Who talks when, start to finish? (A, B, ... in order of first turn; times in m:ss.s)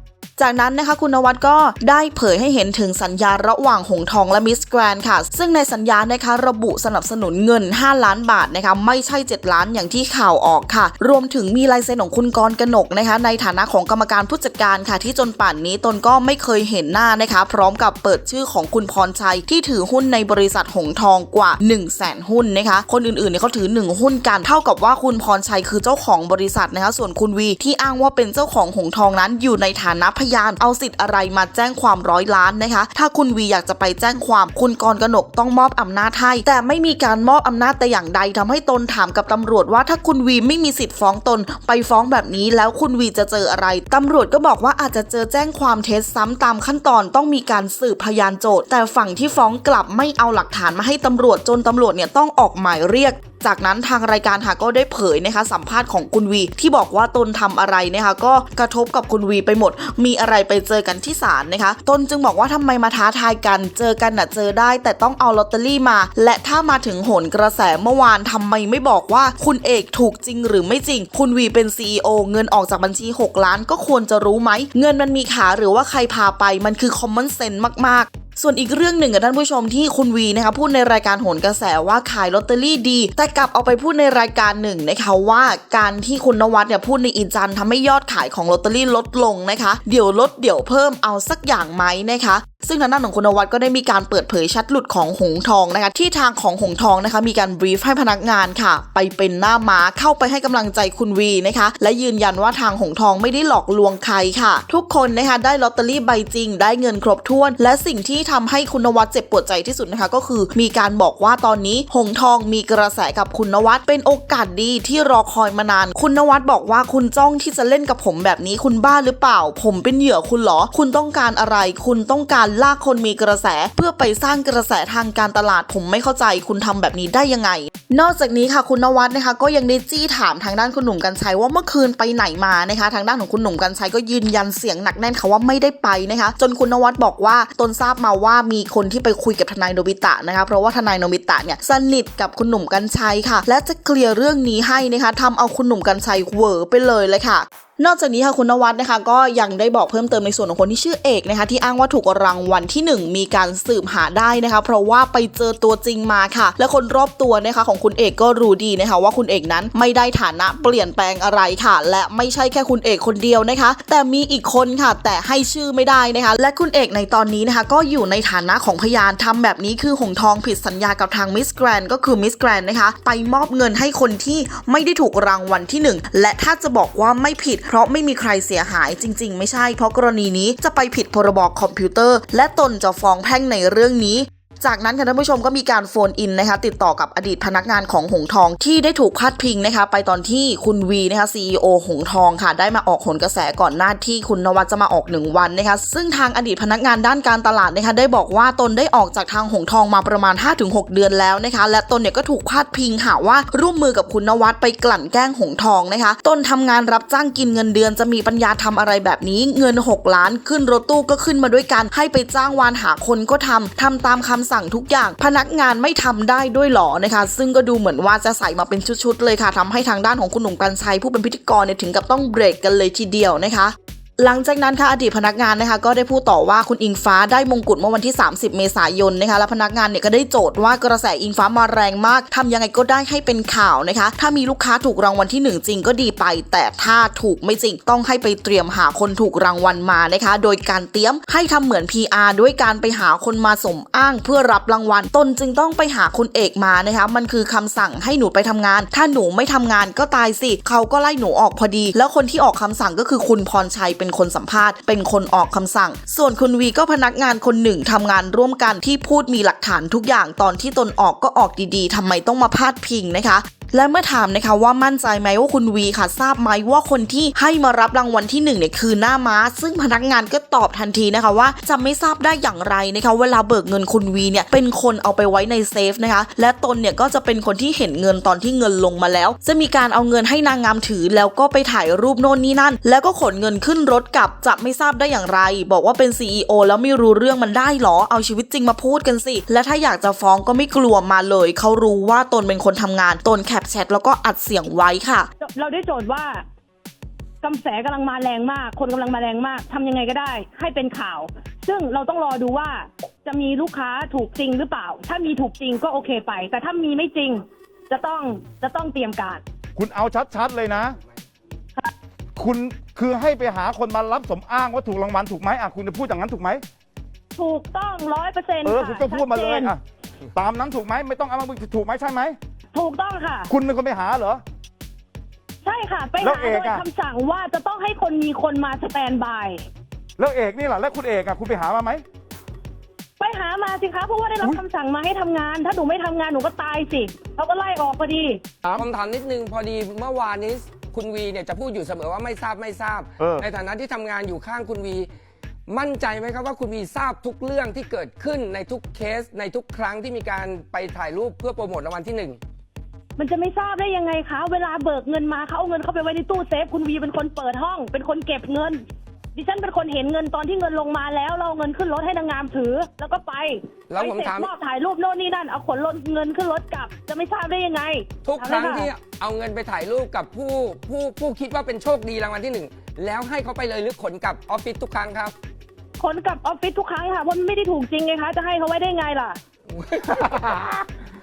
0:00.4-4:55.3 A
4:55.4-4:56.4 B
4:57.4-5:09.4 B
5:09.8-5:11.0 C
5:12.4-5:16.6 C
5:17.3-5:19.7 B
5:18.6-5:19.8 C
5:20.3-5:22.4 C
5:22.7-5:23.5 B
5:23.5-5:24.4 C
5:25.6-5:29.6 B
5:26.2-5:26.8 C
5:30.2-5:32.0 C
5:33.2-5:38.4 B
5:38.7-5:45.1 D
5:43.2-5:43.4 C
5:45.7-5:52.4 D
5:53.2-5:58.8 B
5:59.3-6:08.9 B
6:03.9-6:04.5 D
6:08.2-6:15.3 D
6:16.0-6:19.4 B
6:19.7-6:20.8 D